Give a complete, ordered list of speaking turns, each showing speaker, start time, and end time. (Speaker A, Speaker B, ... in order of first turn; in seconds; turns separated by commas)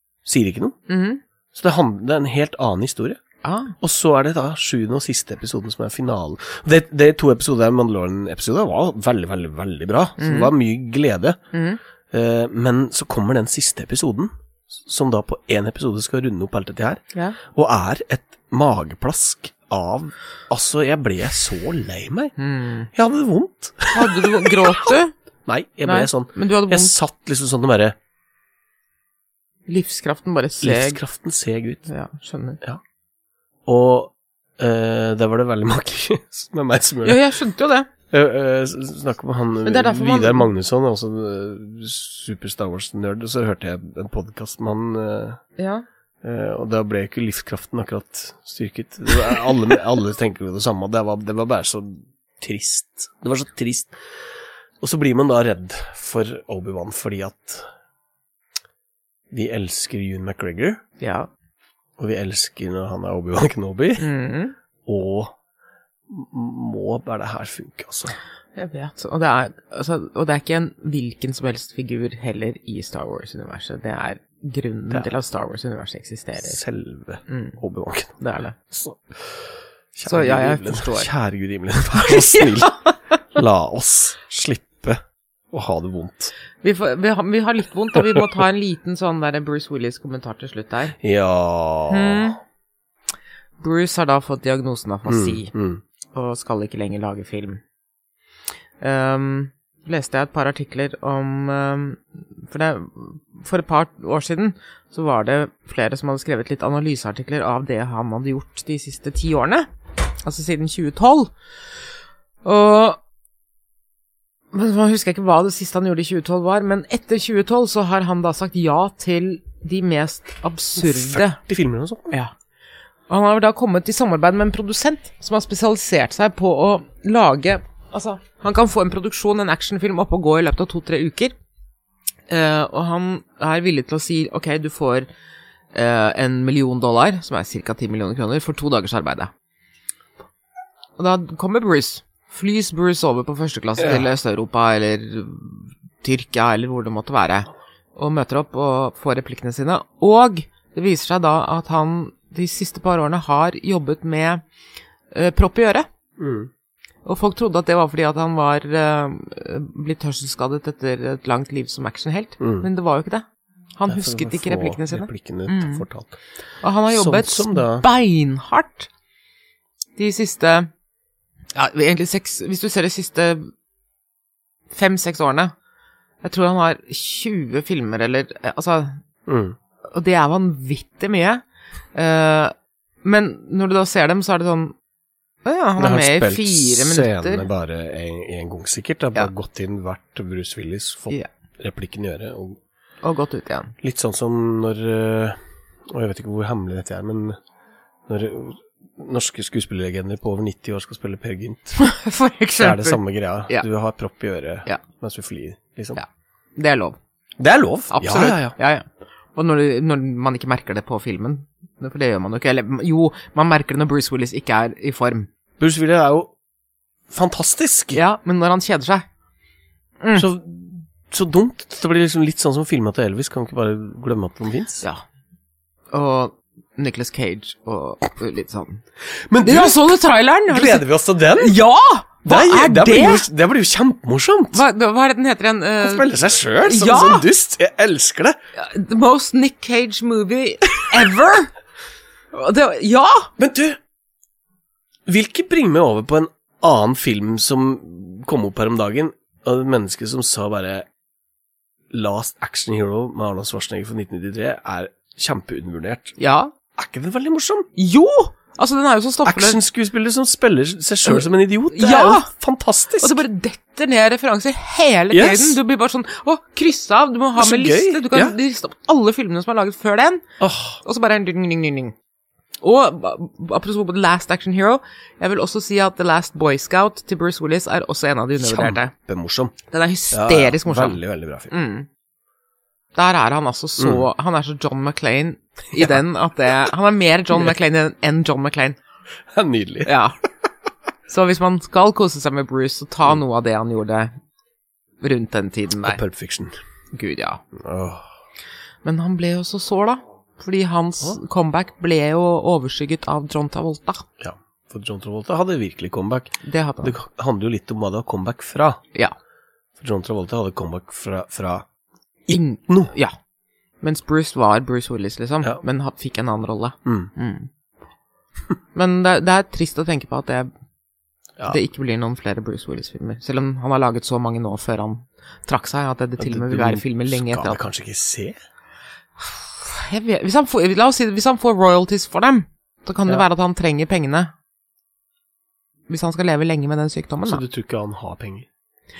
Speaker A: 0.2-0.8, Speaker B: 0.9-1.2, Speaker A: 1.5-3.2, Speaker B: 3.4-3.8, Speaker A: 3.8-11.4, Speaker B: 10.2-10.5, Speaker B: 11.5-11.8, Speaker A: 12.1-22.3, Speaker B: 17.1-17.4, Speaker B: 22.4-22.9, Speaker A: 22.9-24.8, Speaker B: 23.9-25.1, Speaker A: 25.5-28.0, Speaker B: 25.9-26.9, Speaker B: 29.7-31.0, Speaker A: 30.6-31.9, Speaker B: 31.9-32.6, Speaker A: 33.7-37.2, Speaker B: 37.0-37.9, Speaker A: 38.1-45.4, Speaker B: 39.6-40.5, Speaker B: 45.6-45.9, Speaker A: 46.2-54.0, Speaker A: 54.8-57.7, Speaker A: 59.3-60.8, Speaker B: 61.0-61.3, Speaker A: 62.0-64.1, Speaker B: 64.0-64.5, Speaker A: 64.8-65.4, Speaker A: 66.1-68.2, Speaker B: 68.6-76.6, Speaker A: 76.4-78.1, Speaker B: 77.3-77.6, Speaker B: 78.2-78.5, Speaker A: 78.7-85.0, Speaker B: 80.1-81.1, Speaker B: 82.0-82.9, Speaker A: 85.5-86.3, Speaker B: 86.6-91.0, Speaker A: 88.0-88.2, Speaker A: 91.0-92.3, Speaker B: 91.9-92.4, Speaker B: 93.6-95.5, Speaker A: 95.1-95.8, Speaker B: 96.1-97.6, Speaker B: 98.8-109.7, Speaker B: 110.2-111.3, Speaker B: 112.4-113.0, Speaker B: 114.5-121.4, Speaker A: 120.8-122.1, Speaker B: 123.1-131.3, Speaker B: 132.3-135.1, Speaker B: 135.7-139.3, Speaker B: 141.0-154.4, Speaker A: 143.8-144.1, Speaker B: 155.1-155.9, Speaker A: 156.2-156.5, Speaker B: 157.1-165.9, Speaker A: 162.4-162.7, Speaker A: 163.9-166.2, Speaker B: 166.6-168.9, Speaker A: 166.9-167.9, Speaker B: 170.0-170.7, Speaker B: 171.6-173.5, Speaker B: 174.7-175.5, Speaker B: 176.2-179.0, Speaker A: 179.3-179.6, Speaker B: 179.9-181.4, Speaker B: 181.9-184.7, Speaker B: 185.4-187.5, Speaker A: 185.8-192.6, Speaker B: 193.0-193.8, Speaker A: 193.8-195.4, Speaker A: 195.9-197.4, Speaker A: 198.1-201.8, Speaker B: 201.8-203.7, Speaker A: 202.6-206.0, Speaker B: 205.9-207.0, Speaker A: 207.4-208.6, Speaker B: 207.9-215.3, Speaker A: 215.6-216.3, Speaker A: 217.1-218.0, Speaker B: 217.9-219.1, Speaker B: 220.0-220.3, Speaker A: 220.2-224.8, Speaker B: 225.9-228.8, Speaker A: 229.3-230.0, Speaker B: 229.4-230.9, Speaker A: 230.5-231.6, Speaker B: 231.4-233.2, Speaker A: 232.2-234.6, Speaker B: 234.5-237.3, Speaker A: 235.8-238.4, Speaker B: 238.6-241.5, Speaker B: 242.3-243.3, Speaker A: 243.4-243.8, Speaker A: 245.1-250.9, Speaker A: 251.9-256.2, Speaker B: 256.2-256.5, Speaker A: 256.8-257.7, Speaker B: 257.8-259.6, Speaker A: 259.2-263.2, Speaker B: 261.1-262.3, Speaker B: 263.0-270.2, Speaker A: 265.1-265.6, Speaker A: 267.4-268.4, Speaker A: 270.4-270.8, Speaker B: 270.8-271.9, Speaker B: 272.6-278.9, Speaker A: 278.4-279.6, Speaker B: 279.7-281.9, Speaker A: 280.1-281.5, Speaker B: 282.9-288.8, Speaker A: 283.8-284.1, Speaker A: 289.3-289.9, Speaker B: 289.9-290.2, Speaker B: 291.1-294.1, Speaker B: 295.0-296.0, Speaker A: 295.8-296.6, Speaker B: 296.9-297.4, Speaker A: 297.6-298.1, Speaker B: 298.8-304.1, Speaker A: 304.2-308.8, Speaker B: 306.4-306.9, Speaker A: 309.8-311.7, Speaker A: 312.3-312.9, Speaker B: 312.3-313.1, Speaker B: 313.8-317.5, Speaker A: 316.9-317.1, Speaker B: 318.8-320.5, Speaker B: 321.5-327.6, Speaker A: 326.2-328.4, Speaker B: 329.2-334.3, Speaker B: 335.9-337.4, Speaker A: 337.2-338.5